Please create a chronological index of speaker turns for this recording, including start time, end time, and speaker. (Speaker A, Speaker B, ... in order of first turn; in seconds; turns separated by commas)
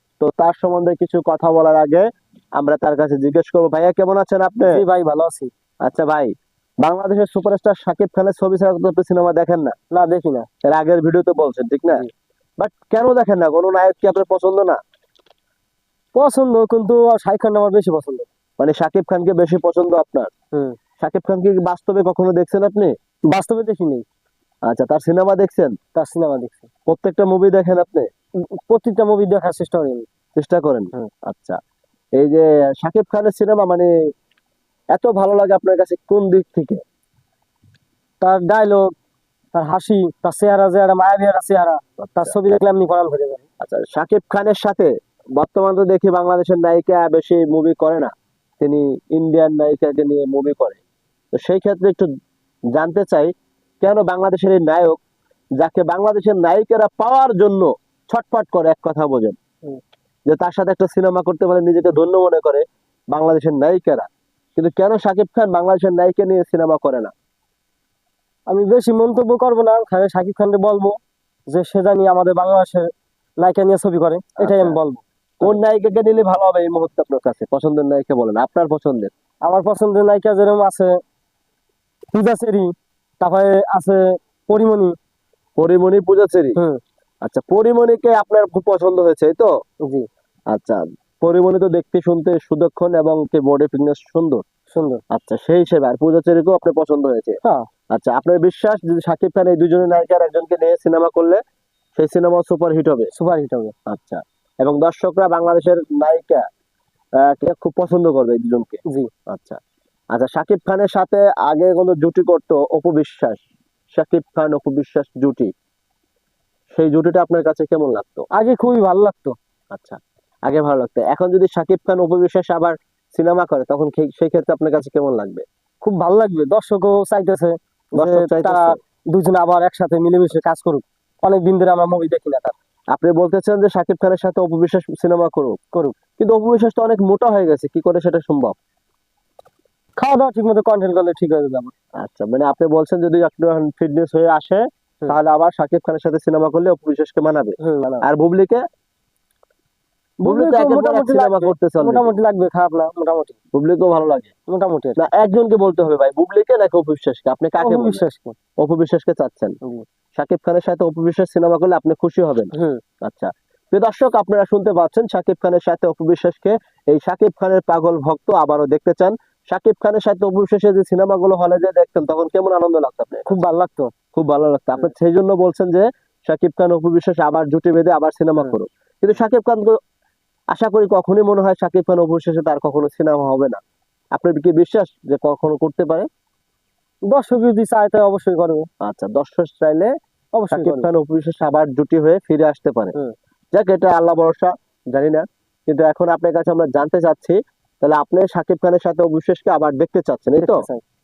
Speaker A: 0.2-4.8, Speaker B: 4.7-5.5, Speaker A: 5.8-9.7, Speaker B: 9.9-10.5, Speaker A: 10.6-12.1, Speaker A: 12.6-14.8, Speaker B: 16.1-18.3, Speaker A: 18.6-20.3, Speaker A: 21.0-22.9, Speaker B: 23.3-24.0, Speaker A: 24.7-25.8, Speaker B: 25.9-26.7, Speaker A: 26.9-28.1, Speaker B: 28.6-30.1, Speaker A: 30.4-31.6, Speaker A: 32.1-33.9, Speaker A: 34.9-36.8, Speaker B: 38.2-38.9, Speaker B: 39.5-43.4, Speaker A: 42.0-42.3, Speaker A: 43.6-50.8, Speaker A: 51.3-52.1, Speaker A: 52.7-55.0, Speaker A: 55.6-59.4, Speaker A: 60.3-67.1, Speaker B: 68.5-75.5, Speaker A: 74.4-74.8, Speaker A: 75.4-79.1, Speaker B: 79.4-81.0, Speaker B: 82.1-85.0, Speaker A: 85.6-86.6, Speaker B: 86.5-86.8, Speaker A: 87.2-89.5, Speaker A: 90.5-94.4, Speaker B: 94.7-95.0, Speaker A: 95.1-97.4, Speaker A: 97.9-101.4, Speaker A: 102.0-103.1, Speaker B: 103.1-103.7, Speaker A: 103.9-106.4, Speaker A: 107.2-109.6, Speaker A: 110.1-113.4, Speaker A: 113.9-115.5, Speaker A: 116.7-118.3, Speaker B: 118.3-119.3, Speaker A: 119.7-125.4, Speaker B: 125.8-132.5, Speaker A: 127.9-128.8, Speaker A: 132.9-135.6, Speaker A: 136.2-138.6, Speaker B: 140.0-141.7, Speaker A: 142.0-148.6, Speaker B: 147.6-148.0, Speaker B: 150.2-153.3, Speaker A: 150.2-152.1, Speaker A: 153.5-154.3, Speaker B: 154.5-155.0, Speaker A: 155.0-158.0, Speaker B: 157.6-158.3, Speaker A: 158.6-159.6, Speaker A: 160.1-173.3, Speaker B: 162.5-162.8, Speaker B: 173.2-173.9, Speaker A: 174.1-179.8, Speaker A: 180.5-183.6, Speaker A: 184.1-186.1, Speaker B: 187.1-188.7, Speaker A: 188.8-189.9, Speaker B: 190.3-190.9, Speaker A: 190.5-192.9, Speaker A: 193.5-200.7, Speaker B: 200.4-200.8